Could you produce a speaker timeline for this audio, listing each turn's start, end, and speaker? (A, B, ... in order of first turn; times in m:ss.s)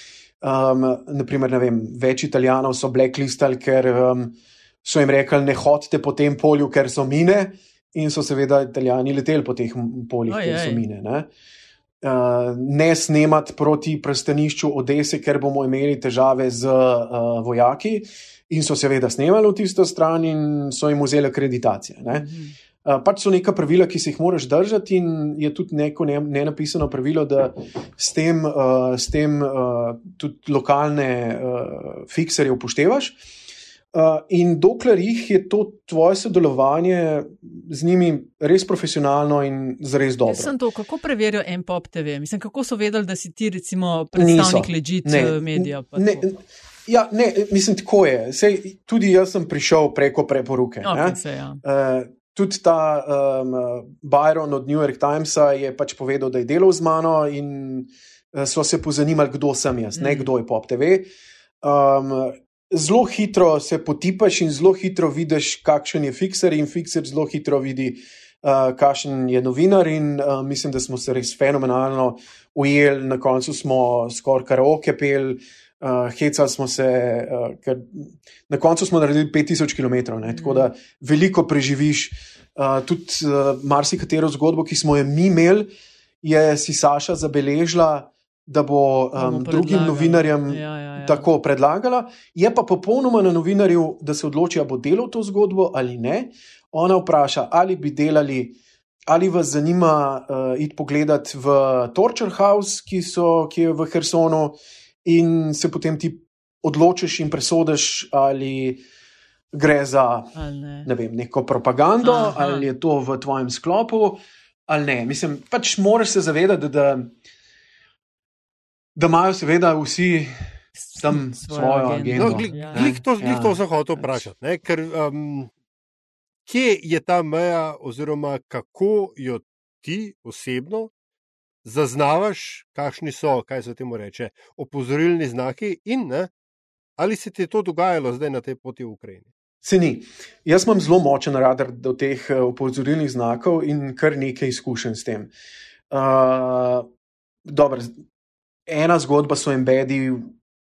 0:00.4-0:11.3 A
0:10.3-0:10.8 B
0:12.0-0:22.3 A
0:22.1-0:22.6 B
0:22.8-0:33.2 A
0:33.9-0:40.5 A
0:40.2-0:46.3 B
0:44.2-1:01.1 A
0:50.8-0:51.6 B
1:00.0-1:00.3 B
1:01.6-1:25.7 A
1:20.3-1:20.7 B
1:26.2-1:38.6 A
1:29.2-1:31.3 B
1:39.1-1:48.8 A
1:49.5-1:57.1 A
1:50.4-1:50.9 B
1:52.0-1:52.7 B
1:59.0-2:00.5 A
2:00.8-2:02.9 B
2:01.0-2:03.6 A
2:02.2-2:05.5 C
2:06.5-2:10.9 C
2:11.6-2:16.3 C
2:17.0-2:19.3 C
2:19.6-2:25.3 A
2:25.9-2:26.9 A
2:27.4-2:28.0 A
2:28.7-2:30.3 A